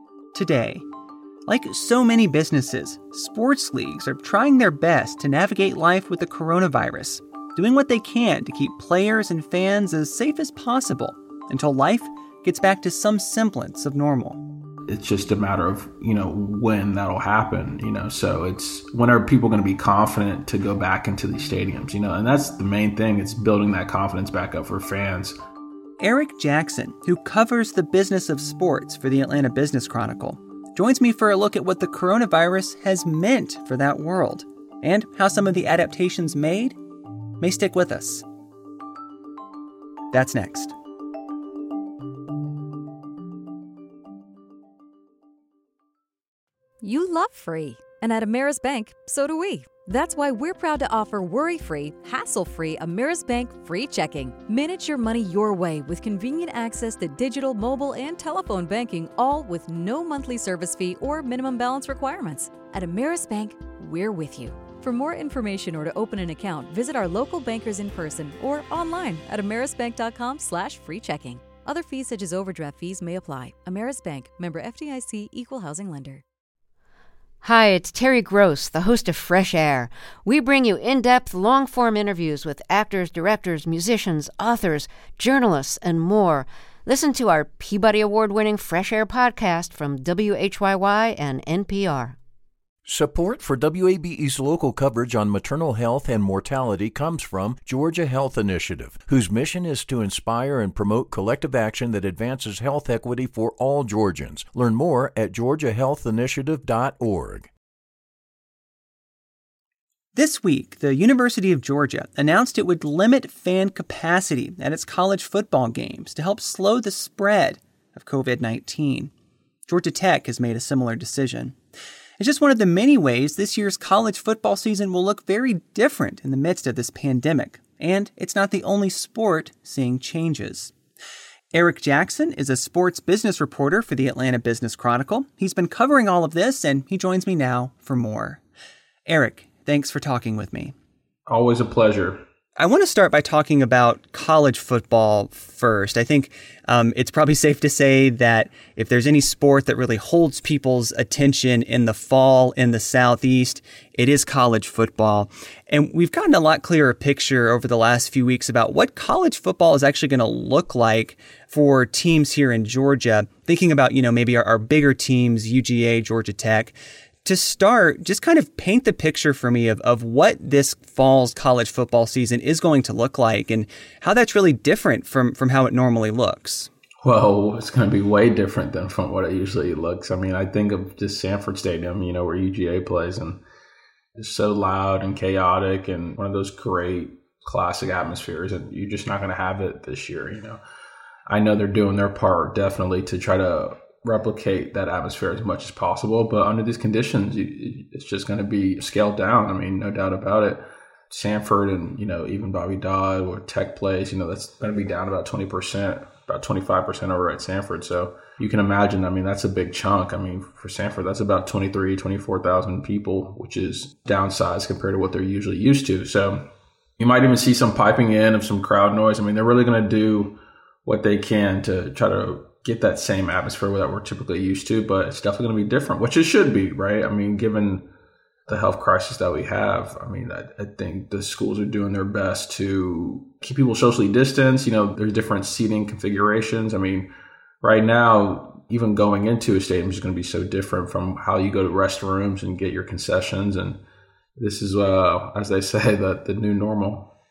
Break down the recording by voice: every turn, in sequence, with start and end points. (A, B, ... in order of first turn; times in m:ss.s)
0:00.3-0:00.8 A
0:01.5-0:14.4 A
0:14.9-0:25.4 B
0:26.0-0:36.8 A
0:37.4-0:38.3 A
0:40.1-0:40.7 A
0:46.8-1:16.2 C
1:17.4-1:32.2 D
1:33.0-1:47.5 E
1:50.1-1:59.1 A
1:59.7-2:01.6 A
2:02.2-2:10.7 A
2:11.5-2:18.4 A
2:19.1-2:20.8 A
2:21.3-2:22.2 B
2:22.6-2:56.7 A
2:57.0-3:03.4 B
3:04.2-3:10.6 B
3:11.3-3:36.4 B
3:37.0-3:47.9 B
3:48.5-3:57.1 B
3:57.6-4:03.8 B
4:04.4-4:07.1 B